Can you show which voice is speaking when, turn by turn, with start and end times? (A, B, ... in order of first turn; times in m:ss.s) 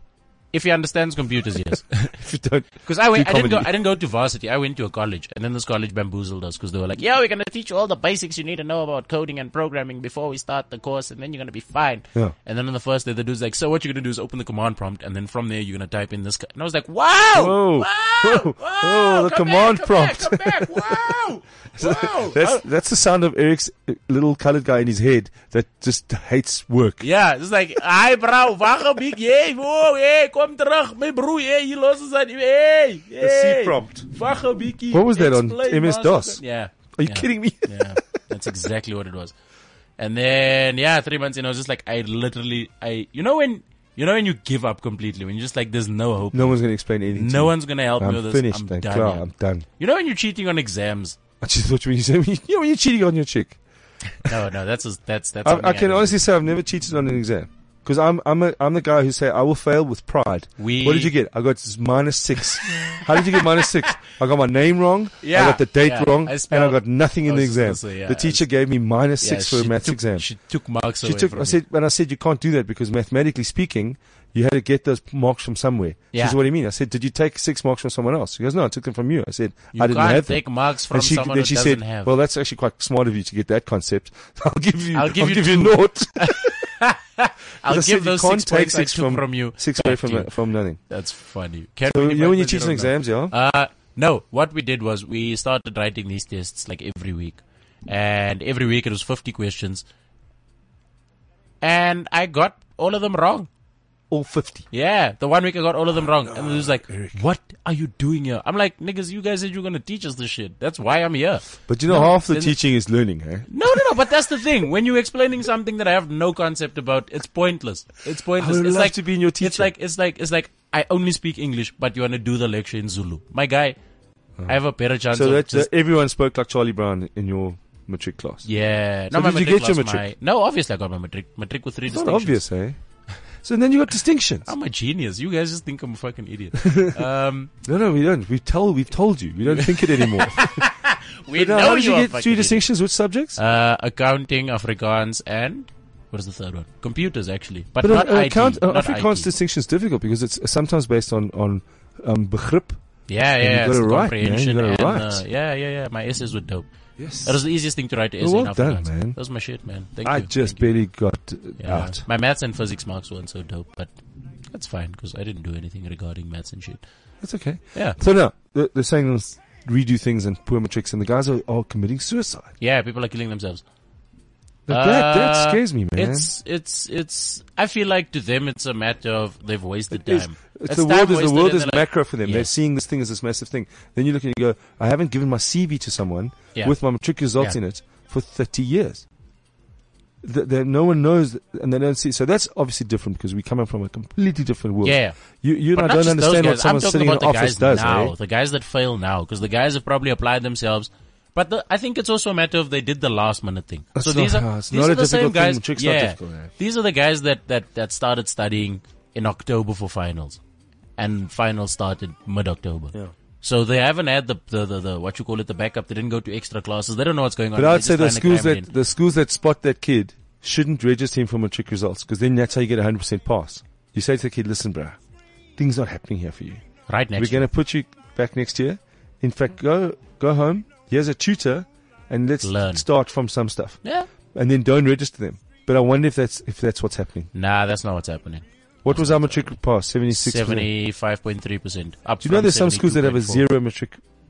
0:00.5-0:02.2 A
0:02.0-0:03.7 B
0:02.8-0:22.6 A
0:17.3-0:21.2 B
0:21.8-0:27.0 B
0:27.0-0:39.3 A
0:33.2-0:34.1 B
0:34.9-0:36.4 B
0:37.0-0:38.0 B
0:40.0-0:46.6 A
0:46.3-0:49.7 B
0:47.1-0:51.2 A
0:51.4-0:53.6 B
0:54.2-0:56.2 A
0:55.4-1:10.3 B
1:00.6-1:01.1 A
1:02.7-1:03.9 A
1:05.2-1:08.5 A
1:09.2-1:11.6 A
1:11.0-1:26.5 B
1:16.1-1:16.4 A
1:19.7-1:22.1 A
1:24.9-1:30.3 A
1:27.6-1:30.8 B
1:30.9-1:39.8 A
1:31.9-1:33.3 B
1:41.6-1:43.5 A
1:44.1-1:44.7 B
1:44.7-1:52.6 A
1:46.2-1:47.2 B
1:51.7-1:53.8 B
1:53.5-2:03.8 A
1:58.4-1:59.7 B
2:04.5-2:05.7 A
2:05.1-2:08.5 B
2:08.4-2:12.4 A
2:09.1-2:10.1 B
2:11.9-2:12.8 B
2:13.4-2:14.5 B
2:14.5-2:17.5 A
2:16.6-2:17.0 B
2:17.6-2:20.6 B
2:19.5-2:22.7 A
2:21.3-2:23.4 B
2:23.4-2:29.3 A
2:27.8-2:32.8 B
2:33.1-2:36.7 A
2:33.4-2:35.2 B
2:37.0-2:37.4 B
2:37.2-2:40.8 A
2:38.2-2:39.2 B
2:40.0-2:42.0 B
2:41.6-2:43.9 A
2:44.5-2:46.8 A
2:47.2-2:52.5 B
2:52.6-2:53.6 A
2:54.7-2:56.3 B
2:54.7-3:02.5 A
2:59.9-3:09.0 B
3:10.2-3:18.2 B
3:14.8-3:15.2 A
3:15.8-3:30.4 A
3:24.0-3:26.5 B
3:31.0-3:38.7 A
3:37.6-3:45.0 B
3:45.6-3:46.6 B
3:46.9-3:47.5 A
3:47.2-3:53.8 B
3:52.4-3:52.8 A
3:53.8-3:54.1 A
3:54.3-3:57.3 B
3:57.3-3:59.6 A
3:58.8-4:00.7 B
4:00.1-4:03.5 A
4:02.2-4:04.0 B